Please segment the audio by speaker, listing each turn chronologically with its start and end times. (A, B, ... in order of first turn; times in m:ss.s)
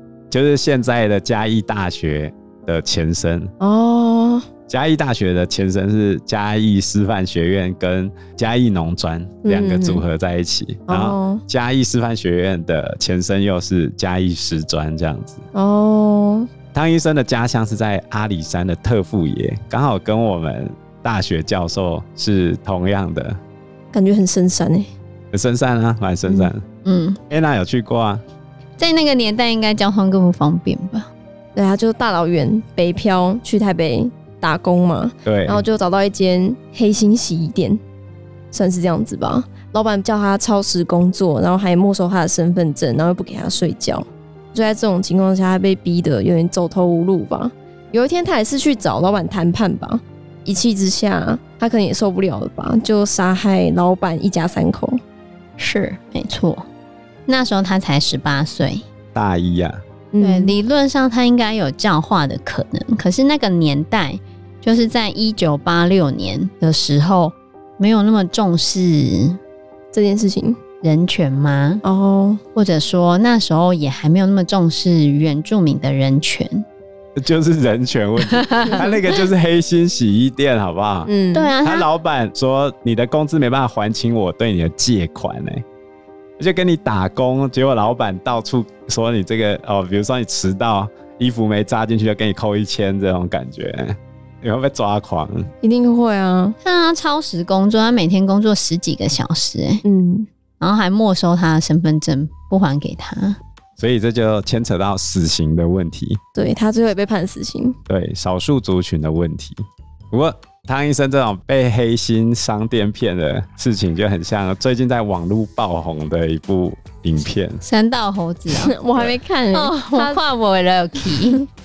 0:00.3-0:03.5 A
0:03.6-0:04.5 B
0:04.7-0:15.4 A
0:09.4-0:10.0 B
0:10.9-0:11.4 B
0:15.5-0:16.5 B
0:16.7-0:23.4 A
0:23.9-0:24.9 B
0:25.3-0:26.6 A
0:26.8-0:27.2 C
0:27.3-0:28.2 A
0:28.8-0:31.1 C
0:31.6-0:37.8 B
0:35.2-0:35.6 A
0:38.5-0:55.0 B
0:55.6-0:56.6 C
0:57.3-0:58.8 C
0:59.1-0:59.8 A
1:00.1-1:00.6 B
1:00.2-1:09.4 C
1:09.9-1:10.6 B
1:10.8-1:11.8 C
1:11.8-1:12.4 B
1:12.6-1:16.6 C
1:17.2-1:21.1 A
1:18.2-1:18.8 C
1:21.0-1:21.5 B
1:21.3-1:21.9 C
1:21.6-1:25.6 A
1:26.4-1:35.5 A
1:35.6-1:36.6 B
1:36.6-1:39.8 C
1:39.8-1:40.3 B
1:40.6-1:43.4 C
1:43.8-1:46.2 A
1:46.4-1:47.8 B
1:47.9-1:57.6 A
1:57.6-1:58.8 C
1:58.5-2:00.2 B
1:59.5-2:01.4 C